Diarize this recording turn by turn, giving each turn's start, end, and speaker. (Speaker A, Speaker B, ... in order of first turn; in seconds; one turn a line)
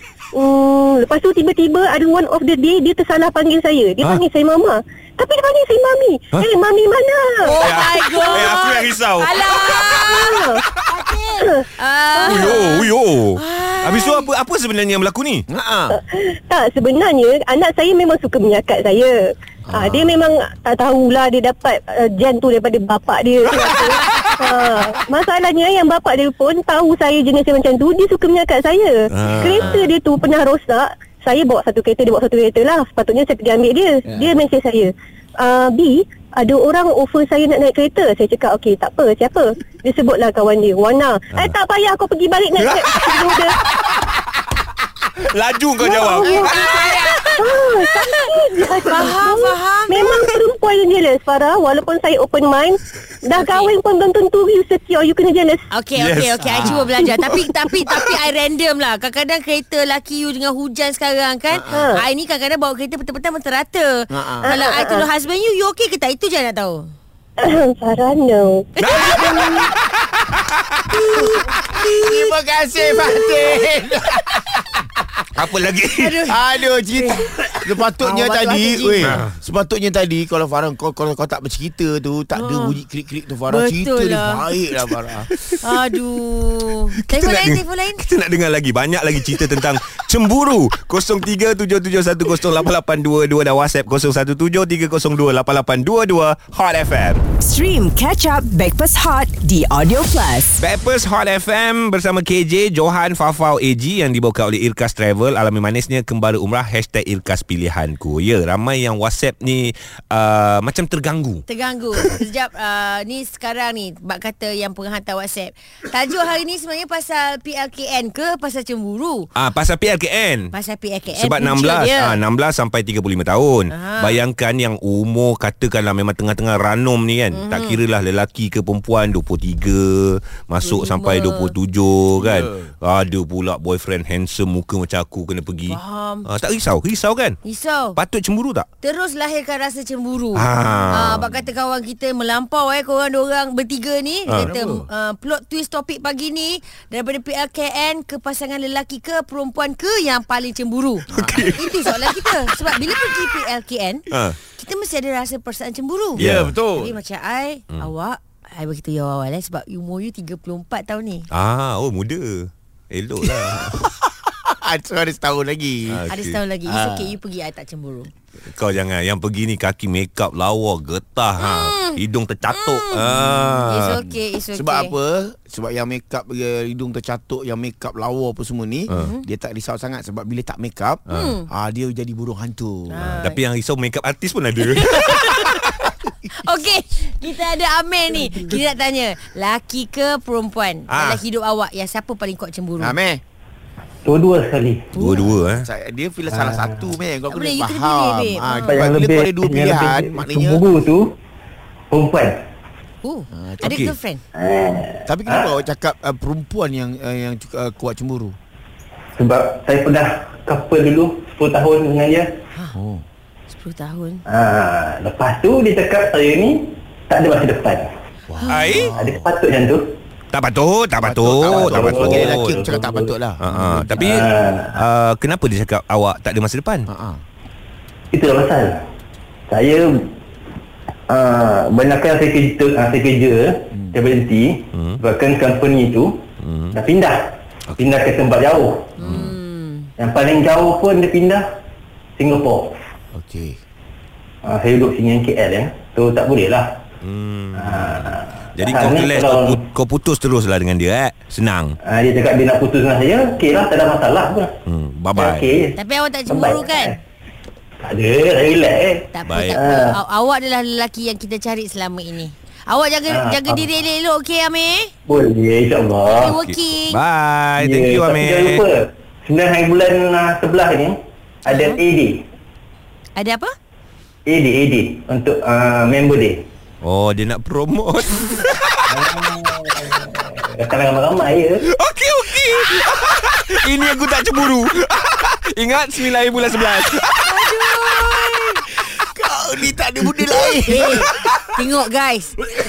Speaker A: 0.3-7.5
Speaker B: 7.5-10.1
Speaker C: 7.6-11.2
Speaker A: 10.0-10.6
Speaker A: 11.4-12.7
Speaker B: 11.8-14.3
Speaker C: 12.2-15.4
Speaker D: 15.5-16.0
Speaker A: 15.9-19.1
Speaker D: 19.7-20.2
Speaker A: 19.7-43.5
Speaker C: 29.1-29.8
Speaker C: 42.6-44.1
Speaker C: 45.2-47.5
Speaker A: 45.8-46.6
Speaker B: 46.5-47.1
Speaker A: 47.4-55.6
Speaker B: 48.9-50.1
Speaker B: 53.3-53.7
Speaker B: 55.7-66.8
Speaker C: 55.9-58.2
Speaker D: 61.5-61.9
Speaker A: 61.7-62.0
Speaker D: 64.1-64.5
Speaker A: 64.4-65.1
Speaker A: 67.4-68.7
Speaker C: 68.8-69.8
Speaker C: 70.3-71.0
Speaker B: 71.8-72.3
Speaker D: 71.9-75.2
Speaker B: 73.1-73.6
Speaker C: 75.3-76.2
Speaker B: 75.9-79.1
Speaker D: 76.3-85.3
Speaker C: 79.0-79.3
Speaker B: 82.3-82.8
Speaker B: 83.5-84.5
Speaker C: 85.4-85.7
Speaker B: 85.6-88.0
Speaker C: 87.0-97.2
Speaker E: 97.4-100.6
Speaker C: 100.6-111.4
Speaker B: 111.5-119.3
Speaker C: 119.3-120.5
Speaker B: 120.5-122.2
Speaker C: 121.1-137.4
Speaker B: 123.7-124.2
Speaker B: 127.3-127.8
Speaker B: 130.6-131.5
Speaker D: 132.2-132.7
Speaker B: 135.7-136.3
Speaker B: 137.4-138.0
Speaker C: 137.9-138.7
Speaker B: 138.8-161.3
Speaker C: 140.3-141.3
Speaker D: 140.8-141.2
Speaker C: 144.3-144.5
Speaker D: 144.4-144.9
Speaker D: 151.1-151.6
Speaker C: 151.1-152.5
Speaker C: 154.1-154.4
Speaker D: 156.2-157.0
Speaker C: 156.2-156.5
Speaker C: 161.3-163.8
Speaker D: 163.3-166.1
Speaker C: 165.9-166.4
Speaker B: 166.1-168.1
Speaker D: 166.7-167.1
Speaker C: 168.4-174.0
Speaker B: 171.4-173.0
Speaker D: 173.1-183.0
Speaker B: 173.7-174.9
Speaker B: 178.9-179.2
Speaker C: 181.1-181.3
Speaker B: 181.1-181.5
Speaker B: 182.9-183.4
Speaker C: 183.1-185.5
Speaker B: 184.7-185.6
Speaker D: 185.3-185.8
Speaker B: 186.3-192.9
Speaker C: 190.9-191.2
Speaker D: 192.8-193.2
Speaker F: 194.0-194.9
Speaker C: 194.9-195.7
Speaker D: 195.6-200.6
Speaker F: 196.3-196.9
Speaker B: 197.3-198.8
Speaker F: 198.7-201.2
Speaker F: 201.9-202.4
Speaker B: 203.0-204.2
Speaker D: 203.3-203.8
Speaker C: 203.6-203.9
Speaker F: 204.3-205.5
Speaker D: 205.1-208.3
Speaker F: 209.2-212.3
Speaker D: 212.7-213.0
Speaker B: 213.5-214.2
Speaker F: 214.3-217.9
Speaker D: 218.3-219.3
Speaker C: 218.5-218.9
Speaker F: 218.9-219.9
Speaker C: 220.3-222.5
Speaker D: 221.0-224.1
Speaker F: 221.4-223.1
Speaker C: 223.4-226.9
Speaker F: 223.9-224.8
Speaker D: 226.9-227.2
Speaker F: 228.1-228.8
Speaker F: 229.5-230.1
Speaker F: 231.1-236.2
Speaker D: 233.7-234.1
Speaker C: 234.7-235.0
Speaker C: 236.4-236.8
Speaker F: 236.7-238.9
Speaker C: 239.0-239.3
Speaker B: 239.0-239.9
Speaker F: 240.0-241.5
Speaker F: 242.2-242.8
Speaker D: 243.1-243.6
Speaker F: 244.4-246.7
Speaker C: 247.0-251.8
Speaker F: 247.5-249.6
Speaker F: 251.8-254.6
Speaker C: 254.7-255.5
Speaker F: 255.1-255.8
Speaker B: 255.7-257.0
Speaker F: 256.3-257.0
Speaker F: 257.8-260.0
Speaker B: 259.1-264.9
Speaker C: 259.3-259.6
Speaker F: 263.1-263.7
Speaker F: 265.1-266.3
Speaker B: 266.1-267.0
Speaker C: 266.4-268.6
Speaker F: 267.6-272.2
Speaker B: 271.4-271.8
Speaker B: 273.1-273.5
Speaker F: 274.2-276.4
Speaker C: 276.8-279.0
Speaker F: 278.9-281.6
Speaker C: 281.7-288.1
Speaker B: 287.2-288.6
Speaker D: 288.8-290.9
Speaker C: 290.3-291.6
Speaker B: 290.6-292.4